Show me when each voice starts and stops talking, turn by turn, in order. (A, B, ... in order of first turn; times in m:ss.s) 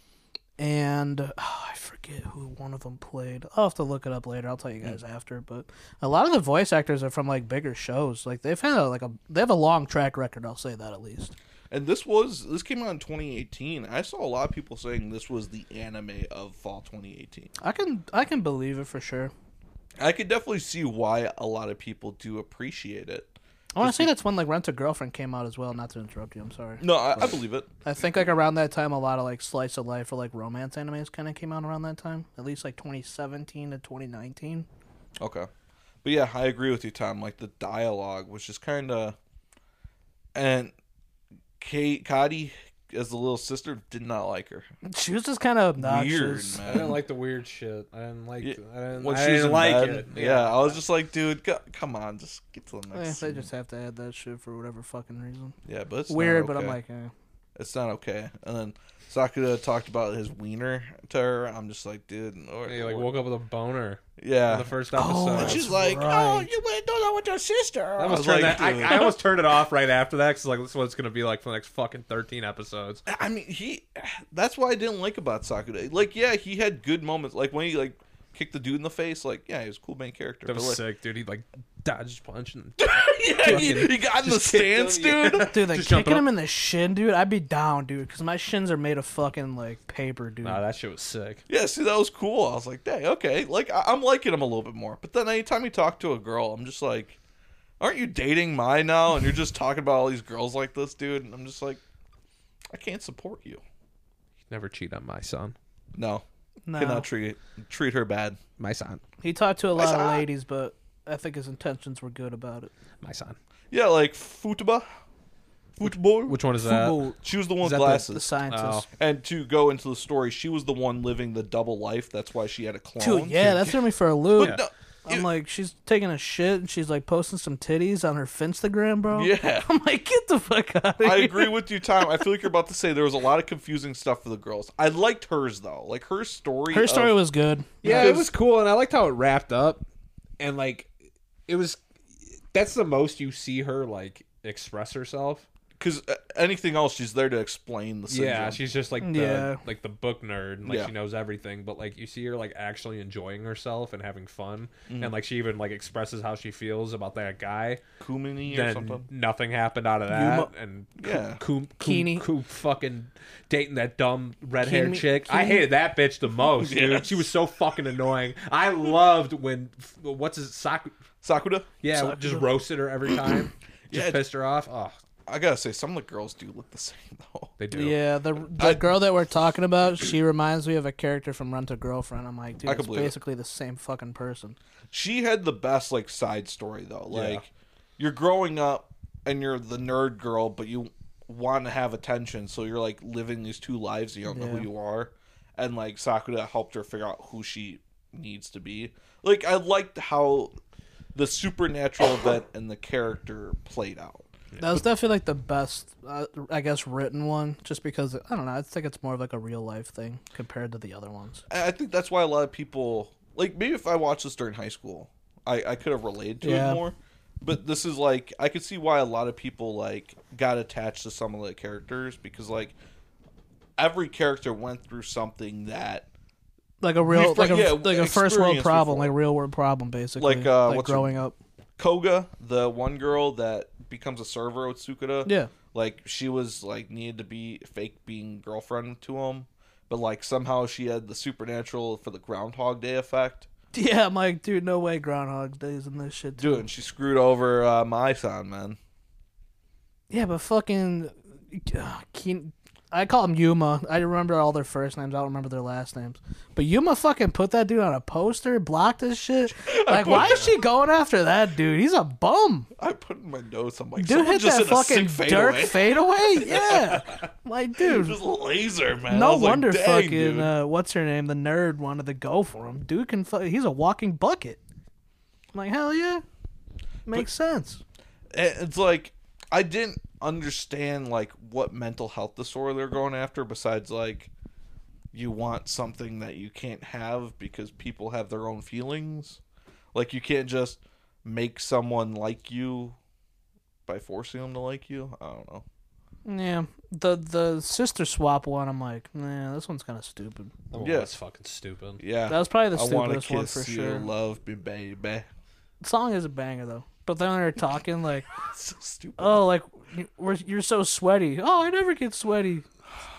0:00.6-0:11.4 A
0:11.7-0:17.5 B
0:17.6-0:19.3 A
0:20.0-0:24.1 B
0:23.8-0:34.7 A
0:26.8-0:27.7 B
0:35.2-0:35.5 B
0:36.0-0:39.2 B
0:40.4-0:40.7 B
0:41.6-0:44.7 B
0:44.8-0:46.6 A
0:45.8-0:47.0 B
0:46.6-0:50.8 C
0:48.4-0:53.5 B
0:52.9-0:55.6 A
0:55.6-0:56.8 B
0:56.1-0:57.1 A
0:57.6-1:03.1 B
1:02.7-1:05.7 C
1:04.2-1:04.7 B
1:04.9-1:06.5 A
1:05.3-1:09.2 B
1:08.0-1:13.0 C
1:13.1-1:20.8 B
1:20.5-1:26.3 C
1:22.8-1:25.5 B
1:25.4-1:30.6 A
1:30.4-1:31.4 C
1:31.5-1:37.2 B
1:37.8-1:41.8 B
1:42.7-1:43.6 B
1:44.5-1:45.6 C
1:46.0-1:46.2 B
1:46.7-1:47.1 A
1:46.8-1:48.4 B
1:48.6-1:49.0 C
1:49.2-1:52.7 A
1:49.8-1:50.2 B
1:53.0-1:53.4 C
1:53.7-1:54.9 B
1:55.8-1:56.4 B
1:56.2-1:57.0 C
1:56.6-1:57.2 A
1:57.2-1:58.3 B
1:57.6-1:58.9 C
1:57.9-1:58.9 A
1:59.0-2:03.8 B
2:03.0-2:12.1 A
2:04.4-2:05.3 B
2:09.1-2:09.7 B
2:11.0-2:17.2 B
2:16.7-2:18.2 A
2:17.8-2:19.8 C
2:17.8-2:18.3 B
2:20.4-2:20.9 C
2:21.5-2:21.8 C
2:22.5-2:25.5 C
2:25.8-2:28.6 B
2:28.1-2:37.8 C
2:29.0-2:29.6 A
2:30.6-2:30.9 B
2:34.9-2:35.1 B
2:38.0-2:39.1 B
2:38.5-2:51.0 C
2:40.1-2:40.5 A
2:41.0-2:41.4 B
2:41.8-2:42.3 A
2:44.6-2:45.7 A
2:46.6-2:47.3 B
2:51.2-2:51.7 B
2:51.8-2:55.0 C
2:51.9-2:52.5 A
2:53.9-2:54.2 B
2:55.3-2:57.5 B
2:57.6-2:58.0 C
2:57.7-3:04.6 A
2:58.6-2:59.0 B
3:02.7-3:03.2 B
3:04.9-3:20.5 B
3:07.1-3:07.4 C
3:14.3-3:14.7 A
3:21.2-3:24.3 B
3:24.6-3:31.4 A
3:31.5-3:42.8 B
3:36.4-3:36.8 A
3:43.8-3:46.1 B
3:46.8-3:51.4 A
3:47.1-3:49.2 B
3:50.2-3:51.1 B
3:51.8-4:03.5 B
3:55.2-3:55.5 A
4:03.7-4:06.6 A
4:06.4-4:08.8 B
4:10.1-4:22.7 A
4:19.6-4:20.5 B
4:22.8-4:27.0 B
4:24.0-4:28.2 A
4:27.8-4:30.5 B
4:29.1-4:34.6 A
4:35.5-4:36.2 A
4:37.1-4:37.8 A
4:38.3-4:44.3 B
4:45.1-4:49.4 B
4:49.9-4:53.0 B
4:53.9-4:55.6 B
4:56.2-5:00.6 A
5:00.7-5:02.0 C
5:00.8-5:01.1 B
5:02.0-5:05.3 B
5:02.3-5:04.1 A
5:05.8-5:08.3 A
5:08.5-5:09.4 B
5:09.2-5:12.7 A